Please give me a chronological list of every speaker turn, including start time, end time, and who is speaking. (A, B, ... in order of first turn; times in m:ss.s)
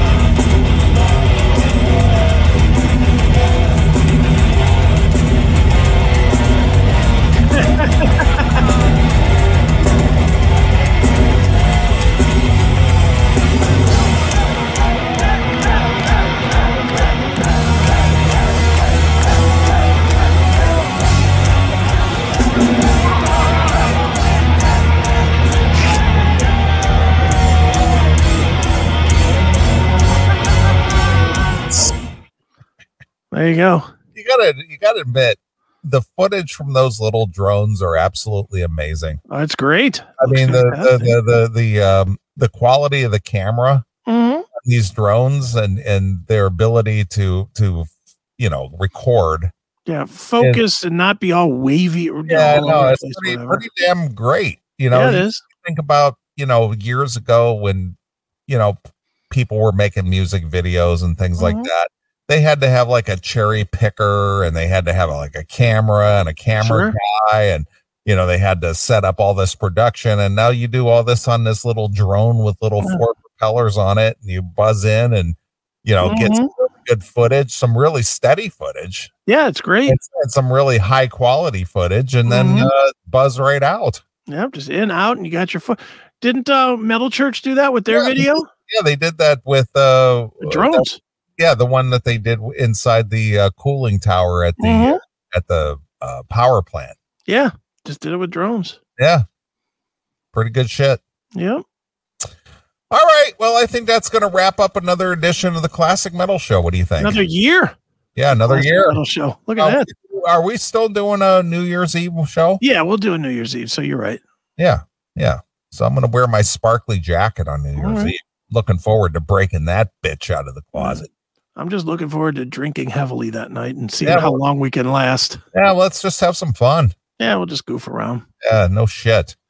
0:07.8-0:08.3 A
0:33.3-0:33.9 A
0:34.2-0:39.2 B
0:39.3-0:41.2 A
0:40.2-0:43.9 B
0:44.1-0:44.5 A
0:44.6-0:49.5 B
0:49.9-0:53.6 A
0:50.4-0:50.6 B
0:52.3-0:58.8 B
0:54.9-0:55.4 A
0:59.3-1:19.1 B
1:01.4-1:01.7 A
1:06.6-1:07.0 A
1:16.0-1:16.5 A
1:19.3-1:20.0 A
1:19.9-1:24.0 B
1:22.3-1:22.7 A
1:24.3-1:28.5 A
1:27.9-1:30.9 B
1:30.4-1:31.0 A
1:31.4-1:37.0 B
1:34.6-1:35.0 A
1:37.3-1:38.8 A
1:39.0-1:39.2 B
1:40.3-1:41.0 B
1:41.4-1:41.6 A
1:42.9-1:47.2 B
1:47.0-1:47.7 A
1:48.2-1:49.0 B
1:48.3-1:49.9 A
1:49.6-1:52.6 B
1:52.6-1:54.2 A
1:54.6-2:01.1 B
1:57.8-1:58.1 A
2:00.8-2:01.0 A
2:01.6-2:05.4 A
2:04.0-2:04.4 B
2:05.5-2:06.9 B
2:07.2-2:08.3 A
2:08.4-2:09.4 B